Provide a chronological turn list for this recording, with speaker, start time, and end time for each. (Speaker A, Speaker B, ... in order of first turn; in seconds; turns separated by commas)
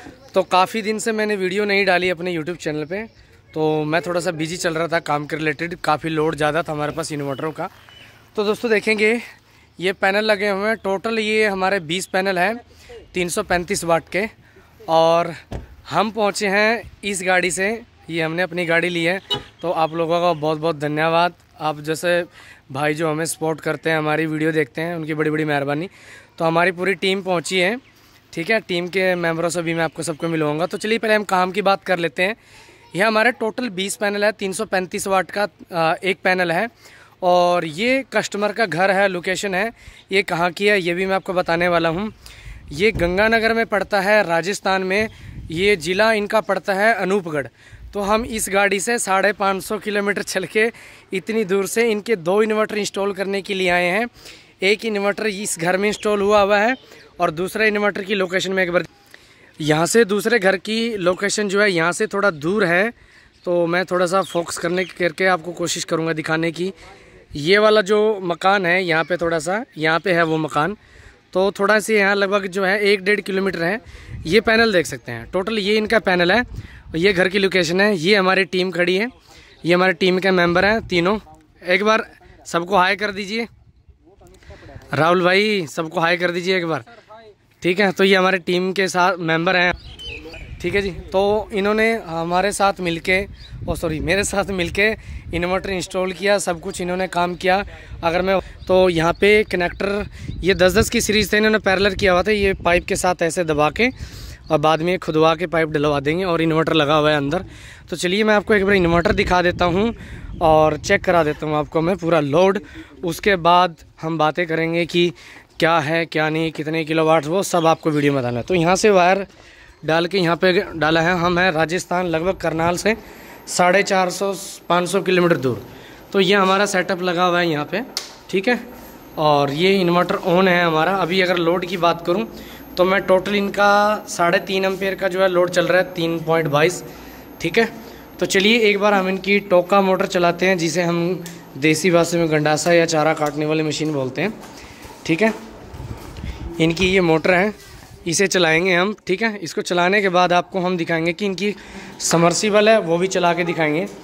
Speaker A: 0.3-7.7, Speaker A: 8.3-9.2, Speaker A: 9.8-14.3, Speaker A: 14.9-27.8, Speaker A: 28.3-32.4, Speaker A: 32.9-42.1, Speaker A: 42.7-54.1, Speaker A: 54.6-58.9, Speaker A: 59.6-66.7, Speaker A: 67.3-70.8, Speaker A: 71.3-79.1, Speaker A: 79.6-83.5, Speaker A: 84.9-86.9, Speaker A: 87.6-89.8, Speaker A: 90.6-103.9, Speaker A: 104.5-119.3, Speaker A: 119.8-128.6, Speaker A: 129.2-136.8, Speaker A: 137.4-144.3, Speaker A: 145.0-145.3, Speaker A: 146.6-153.9